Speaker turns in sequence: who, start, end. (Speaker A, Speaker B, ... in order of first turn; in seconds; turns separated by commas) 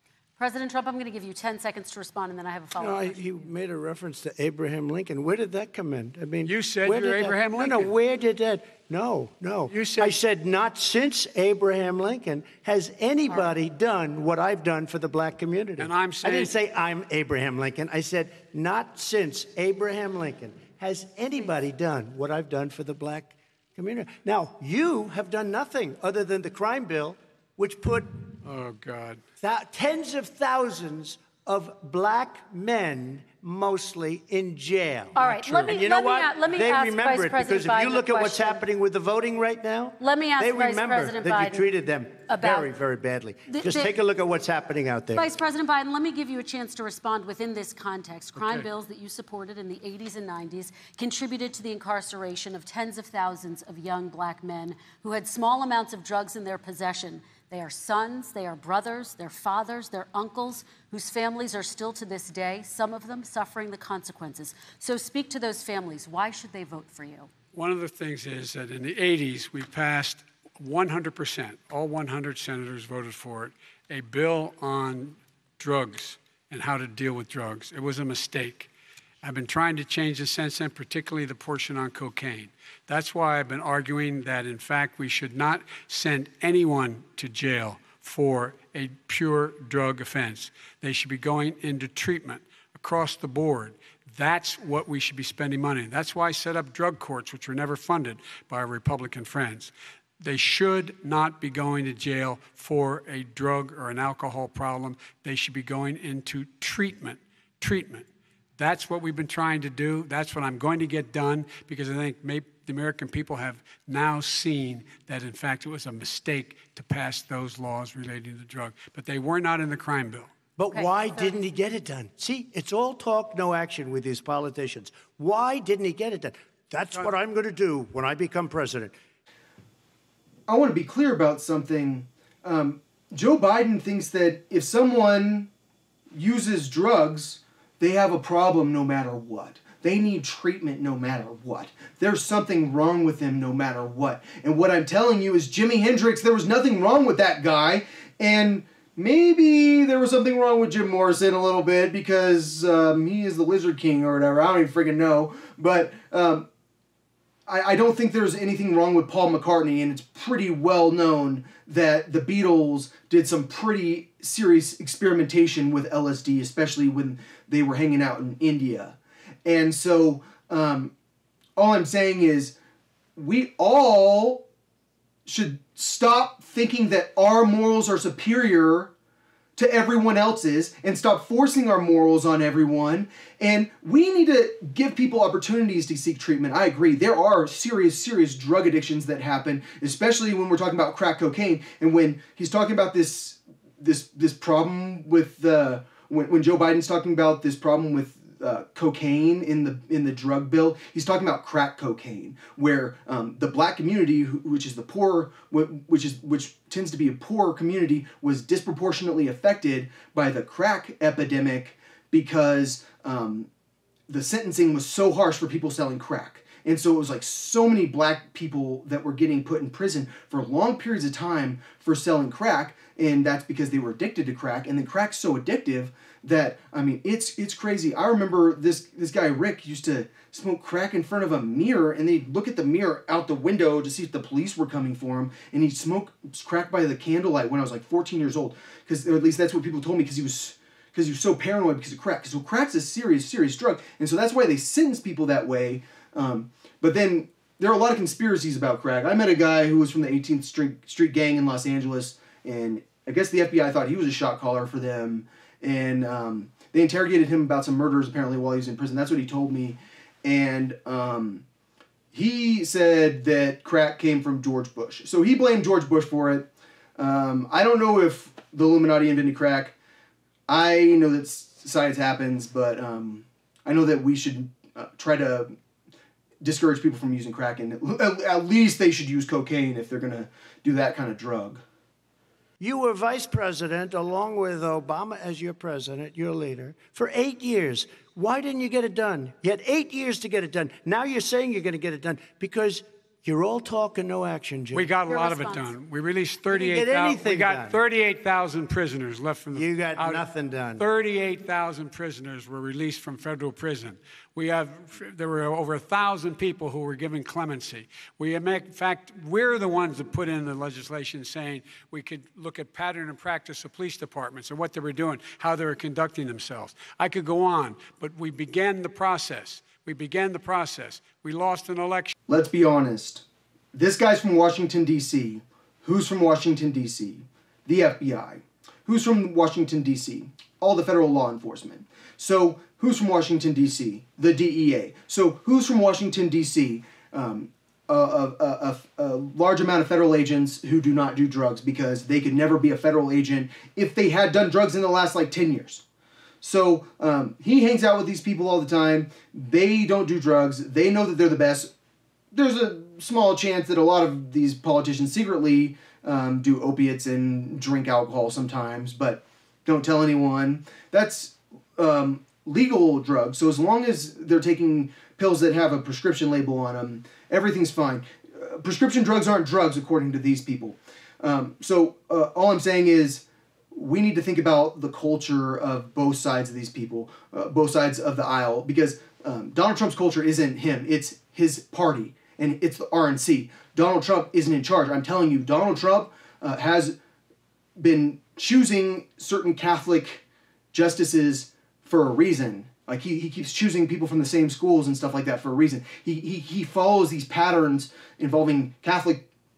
Speaker A: 0.4-3.5, Speaker B: 2.8-28.1, Speaker C: 6.4-7.9, Speaker C: 9.7-10.2, Speaker C: 15.8-16.5, Speaker C: 28.4-29.2, Speaker B: 29.4-45.2, Speaker A: 35.1-38.6, Speaker A: 40.0-41.6, Speaker A: 42.3-42.7, Speaker A: 43.5-43.9, Speaker A: 45.1-67.3, Speaker C: 48.4-48.6, Speaker C: 67.5-78.7, Speaker C: 79.2-108.1, Speaker C: 108.6-120.3, Speaker B: 120.6-128.9, Speaker A: 120.7-121.3, Speaker D: 130.5-135.5, Speaker D: 136.1-156.4, Speaker D: 157.5-170.9, Speaker D: 171.6-172.5, Speaker D: 173.2-174.4, Speaker D: 175.2-178.9, Speaker D: 179.6-213.5, Speaker D: 214.1-261.4, Speaker D: 262.1-269.7, Speaker D: 270.5-275.5, Speaker D: 276.4-281.6, Speaker B: 282.6-294.9, Speaker C: 294.7-300.2, Speaker A: 295.1-295.7, Speaker B: 296.5-297.8, Speaker B: 299.5-300.8, Speaker C: 300.8-322.1, Speaker D: 322.3-345.8, Speaker D: 346.4-351.7, Speaker D: 352.3-386.9, Speaker D: 387.8-399.2